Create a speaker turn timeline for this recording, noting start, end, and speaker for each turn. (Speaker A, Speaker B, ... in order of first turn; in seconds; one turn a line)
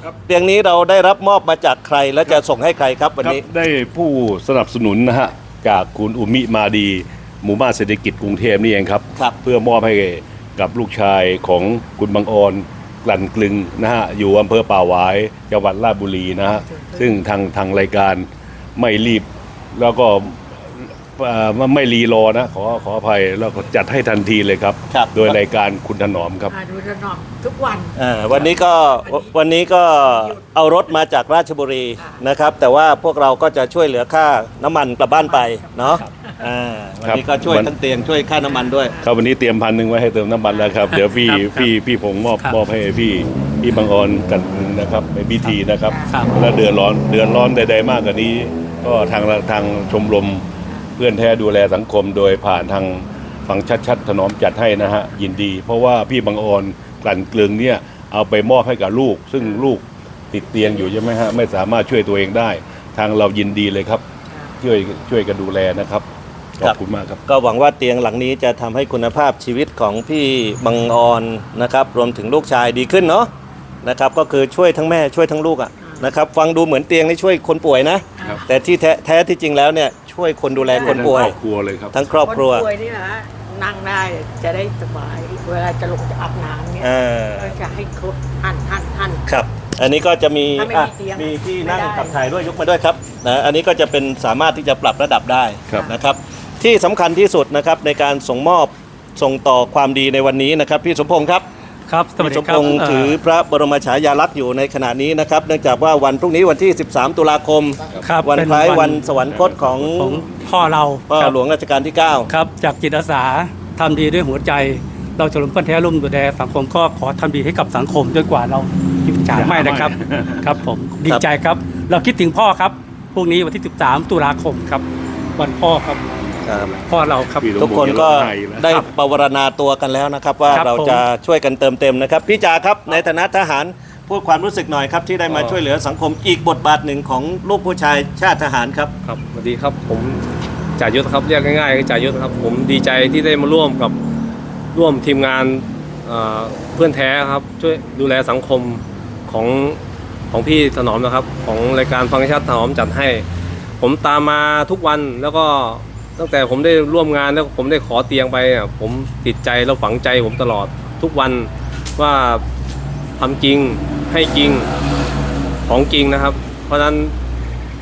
Speaker A: 0.2-3.4
Speaker B: 3.2-18.2
Speaker C: 16.5-17.1
Speaker B: 18.8-26.6
Speaker A: 24.9-25.3
Speaker C: 26.5-29.3
Speaker A: 27.9-39.0
Speaker C: 35.1-36.4
Speaker B: 37.0-37.7
Speaker C: 38.4-39.1
Speaker B: 39.0-50.4
Speaker C: 40.5-40.8
Speaker D: 40.9-41.7
Speaker C: 45.9-46.2
Speaker D: 46.1-46.4
Speaker B: 51.0-64.0
Speaker B: 64.6-66.0
Speaker B: 66.6-67.2
Speaker A: 66.6-73.3
Speaker A: 73.8-81.3
Speaker C: 75.8-76.1
Speaker C: 78.2-78.4
Speaker C: 80.7-81.2
Speaker B: 80.8-82.0
Speaker A: 81.9-82.7
Speaker C: 82.2-89.2
Speaker A: 86.8-87.6
Speaker A: 89.2-101.4
Speaker C: 90.5-92.2
Speaker D: 101.9-103.1
Speaker A: 102.2-110.2
Speaker D: 108.0-109.0
Speaker B: 109.1-110.5
Speaker D: 109.9-111.3
Speaker A: 111.1-112.3
Speaker D: 112.3-126.2
Speaker B: 119.3-120.6
Speaker A: 126.5-126.7
Speaker D: 126.8-127.5
Speaker B: 127.3-128.8
Speaker A: 127.6-138.9
Speaker D: 130.5-131.0
Speaker E: 135.3-135.6
Speaker E: 139.0-140.2
Speaker E: 140.8-143.9
Speaker E: 144.7-153.2
Speaker E: 153.8-162.4
Speaker E: 163.2-164.7
Speaker E: 165.7-167.1